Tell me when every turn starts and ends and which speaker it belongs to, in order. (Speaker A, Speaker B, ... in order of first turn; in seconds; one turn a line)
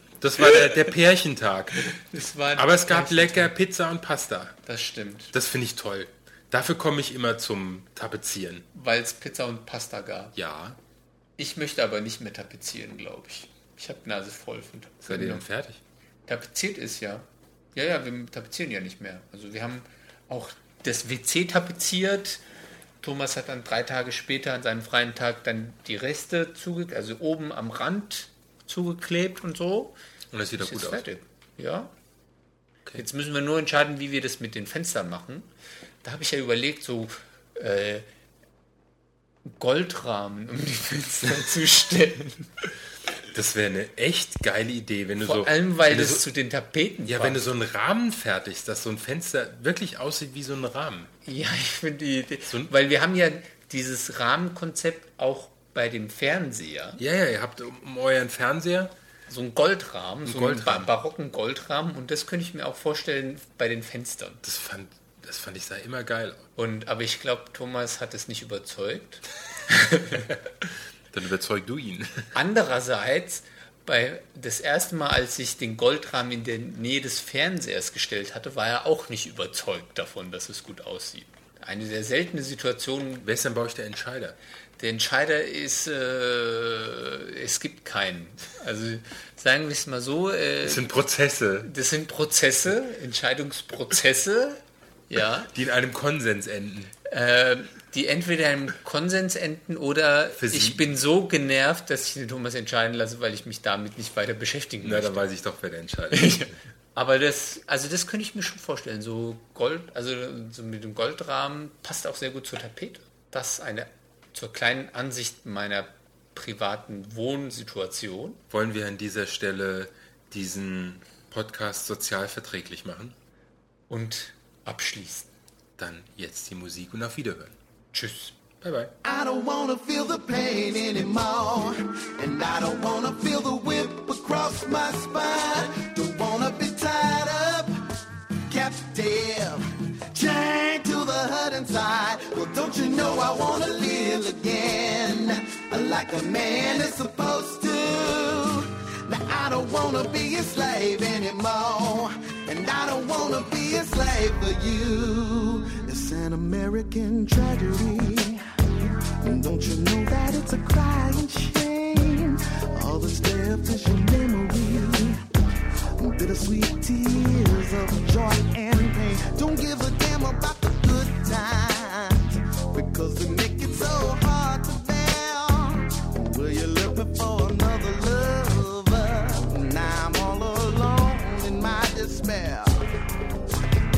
Speaker A: 0.2-1.9
Speaker B: 1.9-3.5
Speaker A: 2.5-4.6
Speaker B: 4.7-5.3
Speaker A: 5.3-8.7
Speaker B: 8.7-10.3
Speaker A: 10.3-10.8
Speaker B: 11.4-15.4
Speaker A: 15.1-15.8
Speaker B: 16.3-22.4
Speaker B: 23.0-30.0
Speaker A: 30.3-31.0
Speaker B: 30.6-31.9
Speaker B: 33.0-35.5
Speaker B: 36.0-38.1
Speaker B: 39.5-42.5
Speaker A: 43.3-46.3
Speaker B: 45.2-47.4
Speaker A: 47.1-51.1
Speaker B: 51.2-57.0
Speaker A: 57.0-58.9
Speaker B: 59.3-64.4
Speaker A: 60.2-60.9
Speaker A: 64.4-66.5
Speaker B: 66.6-70.2
Speaker A: 71.1-72.3
Speaker B: 72.3-83.3
Speaker A: 83.2-84.4
Speaker B: 84.8-90.9
Speaker A: 90.6-91.7
Speaker B: 91.6-95.5
Speaker A: 95.5-96.9
Speaker B: 97.0-105.3
Speaker A: 100.4-100.8
Speaker A: 104.8-106.5
Speaker B: 106.1-118.4
Speaker A: 118.5-123.2
Speaker B: 123.9-125.3
Speaker A: 125.8-127.5
Speaker B: 127.9-128.3
Speaker A: 128.6-128.9
Speaker C: 129.0-137.8
Speaker C: 138.5-165.3
Speaker C: 166.0-182.8